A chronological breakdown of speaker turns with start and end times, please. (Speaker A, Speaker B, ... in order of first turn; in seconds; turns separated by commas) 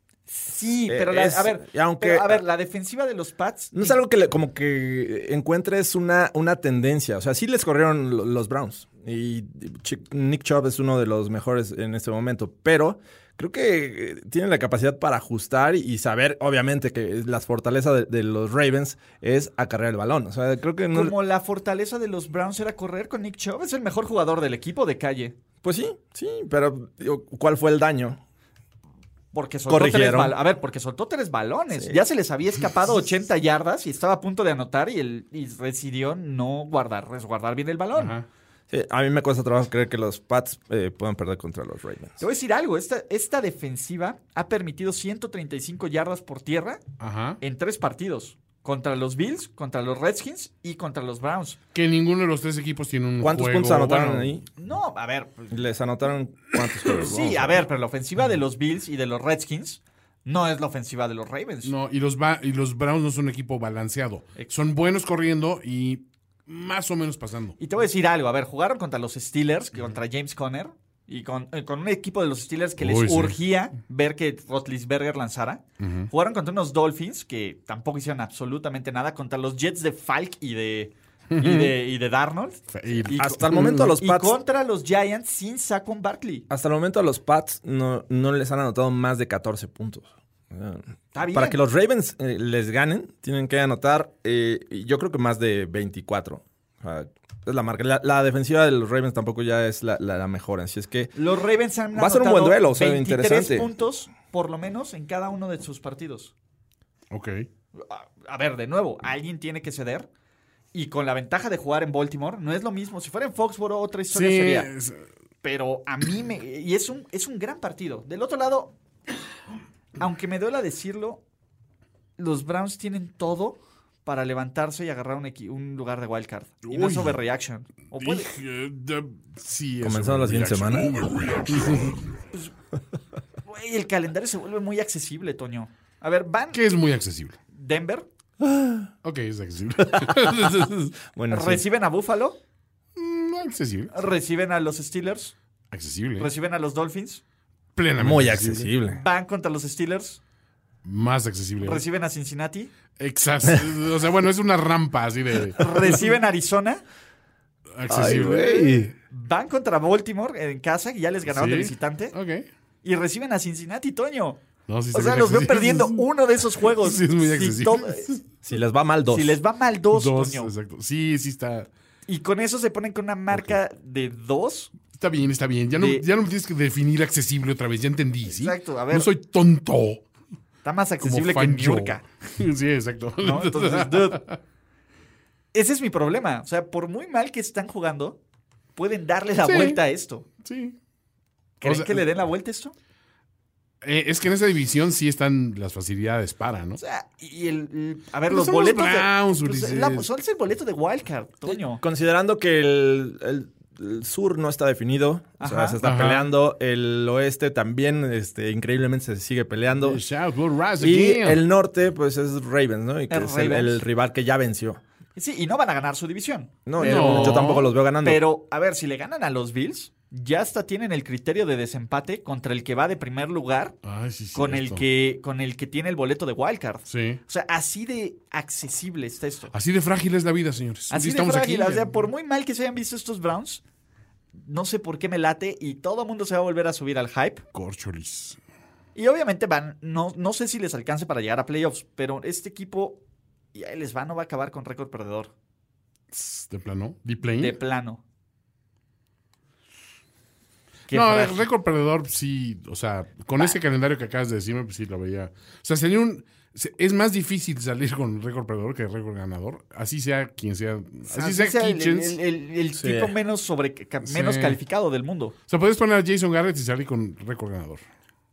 Speaker A: 0.3-4.0, Speaker B: 0.9-2.4, Speaker B: 3.7-21.1, Speaker A: 20.9-25.3, Speaker B: 25.6-28.2, Speaker A: 29.3-38.2, Speaker B: 29.7-30.4, Speaker B: 31.8-32.0, Speaker C: 37.9-38.2, Speaker B: 38.7-42.2, Speaker A: 42.2-46.8, Speaker C: 47.0-47.4, Speaker A: 47.4-51.6, Speaker C: 51.7-54.3, Speaker B: 53.2-54.5, Speaker A: 54.6-55.6, Speaker B: 55.5-57.5, Speaker A: 57.0-61.7, Speaker C: 61.6-67.6, Speaker A: 67.6-86.4, Speaker C: 72.8-73.4, Speaker C: 75.8-76.1, Speaker C: 81.3-81.7, Speaker C: 82.7-83.9, Speaker B: 83.1-84.3, Speaker B: 86.5-101.1, Speaker A: 91.1-91.6, Speaker A: 101.2-106.3, Speaker B: 101.9-103.7, Speaker C: 107.1-107.5, Speaker A: 107.8-110.1, Speaker A: 110.7-114.7, Speaker C: 114.1-115.0, Speaker A: 115.4-118.7, Speaker A: 120.0-121.2, Speaker A: 122.2-128.3, Speaker C: 126.6-127.2, Speaker C: 128.0-132.0, Speaker B: 129.8-130.9, Speaker A: 133.4-136.6, Speaker C: 136.5-137.3, Speaker A: 137.5-138.1, Speaker B: 138.4-138.9, Speaker C: 139.0-140.9, Speaker B: 139.8-140.5, Speaker B: 141.1-141.6, Speaker A: 141.3-142.4, Speaker C: 142.9-143.9, Speaker A: 143.9-145.3, Speaker C: 145.7-146.3, Speaker A: 146.2-147.2, Speaker C: 147.8-148.7, Speaker B: 148.0-149.0, Speaker A: 148.9-150.2, Speaker C: 150.8-151.8, Speaker A: 151.6-152.7, Speaker C: 153.0-155.7, Speaker A: 155.6-156.8, Speaker C: 157.7-158.9, Speaker B: 157.9-158.9, Speaker A: 159.1-162.1, Speaker C: 161.3-162.5, Speaker A: 162.8-164.4, Speaker C: 164.7-166.0, Speaker A: 164.9-168.1, Speaker C: 166.8-168.2, Speaker B: 168.4-169.4, Speaker A: 169.1-170.5, Speaker C: 169.9-171.7, Speaker A: 172.1-174.7, Speaker C: 174.9-180.0, Speaker A: 175.8-176.0, Speaker A: 178.2-179.1, Speaker A: 180.6-182.0, Speaker C: 181.0-184.4, Speaker A: 183.2-184.2, Speaker A: 185.5-188.2, Speaker A: 188.8-190.2, Speaker C: 189.4-189.8, Speaker C: 190.4-190.8, Speaker A: 191.6-192.7, Speaker C: 191.6-192.0, Speaker C: 193.8-196.8, Speaker A: 196.8-201.8, Speaker C: 198.3-200.1, Speaker B: 201.8-210.0, Speaker A: 205.4-205.8, Speaker C: 205.8-206.3, Speaker C: 209.8-211.4, Speaker B: 210.8-214.8, Speaker A: 213.1-213.8, Speaker A: 215.2-223.8, Speaker B: 216.7-218.2, Speaker C: 216.8-217.7, Speaker C: 223.8-224.8, Speaker A: 224.3-229.5, Speaker C: 226.9-227.2, Speaker C: 229.5-231.9, Speaker A: 230.9-233.6, Speaker A: 234.3-237.4, Speaker C: 237.5-238.4, Speaker A: 238.9-243.0, Speaker A: 243.5-245.3, Speaker C: 246.1-247.6, Speaker A: 247.4-248.0, Speaker A: 250.9-251.4, Speaker C: 250.9-262.2, Speaker A: 261.1-265.3, Speaker B: 262.7-263.1, Speaker C: 264.0-264.6, Speaker C: 265.5-267.8